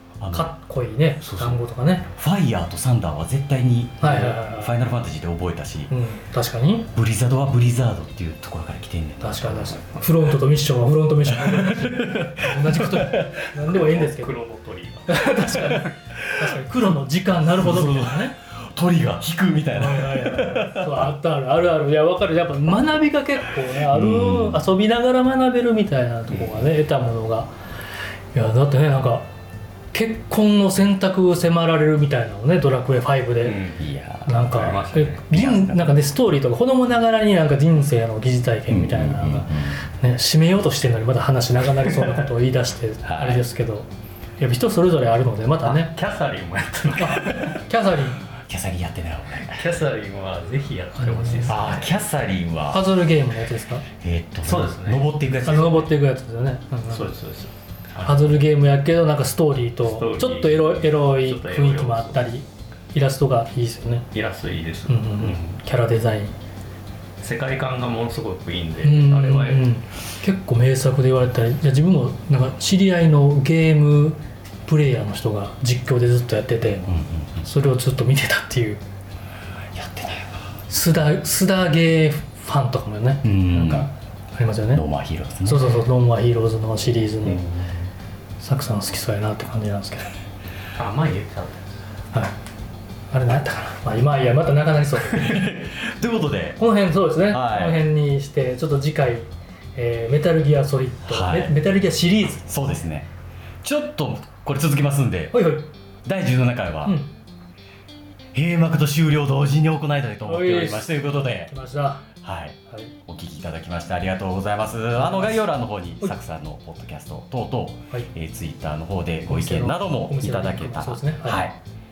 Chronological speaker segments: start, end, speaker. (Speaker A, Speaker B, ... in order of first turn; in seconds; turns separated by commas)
Speaker A: 0.2-0.5, Speaker B: 0.3-2.1, Speaker A: 1.2-5.9, Speaker B: 4.0-4.7, Speaker B: 5.9-6.9, Speaker A: 6.9-9.8, Speaker B: 9.2-14.3, Speaker A: 11.2-13.5, Speaker C: 13.7-15.7, Speaker B: 15.1-18.3, Speaker A: 15.7-16.5, Speaker A: 17.4-21.1, Speaker B: 19.7-27.5, Speaker A: 23.8-24.6, Speaker C: 26.3-26.7, Speaker B: 28.3-29.3, Speaker B: 29.9-33.6, Speaker C: 33.4-35.9, Speaker A: 33.8-34.4, Speaker B: 34.3-45.9, Speaker A: 38.7-39.8, Speaker A: 43.0-43.4, Speaker C: 45.6-47.6, Speaker B: 47.0-48.2, Speaker A: 48.4-49.7, Speaker C: 49.5-52.0, Speaker B: 51.0-51.6, Speaker A: 51.5-52.9, Speaker B: 52.7-53.8, Speaker A: 54.0-55.9, Speaker C: 54.4-55.1, Speaker B: 55.4-57.1, Speaker C: 56.9-58.4, Speaker B: 58.0-64.0, Speaker C: 59.8-62.2, Speaker C: 64.1-65.6, Speaker B: 64.9-66.3, Speaker C: 67.2-69.7, Speaker B: 68.8-76.9, Speaker A: 76.8-77.4, Speaker B: 77.4-78.8, Speaker A: 79.7-80.5, Speaker B: 80.7-84.8, Speaker A: 83.2-83.9, Speaker A: 84.7-85.7, Speaker B: 85.4-87.5, Speaker C: 87.2-87.7, Speaker B: 88.4-90.1, Speaker C: 90.8-91.7, Speaker B: 93.1-95.4, Speaker A: 95.1-96.6, Speaker B: 96.6-102.5, Speaker A: 97.3-97.8, Speaker A: 101.1-101.5, Speaker A: 102.5-103.1, Speaker A: 103.6-105.4, Speaker B: 105.3-105.7, Speaker A: 106.0-107.0, Speaker A: 108.3-111.5, Speaker B: 110.2-112.0, Speaker A: 112.2-121.5, Speaker B: 115.0-115.4, Speaker B: 119.3-121.4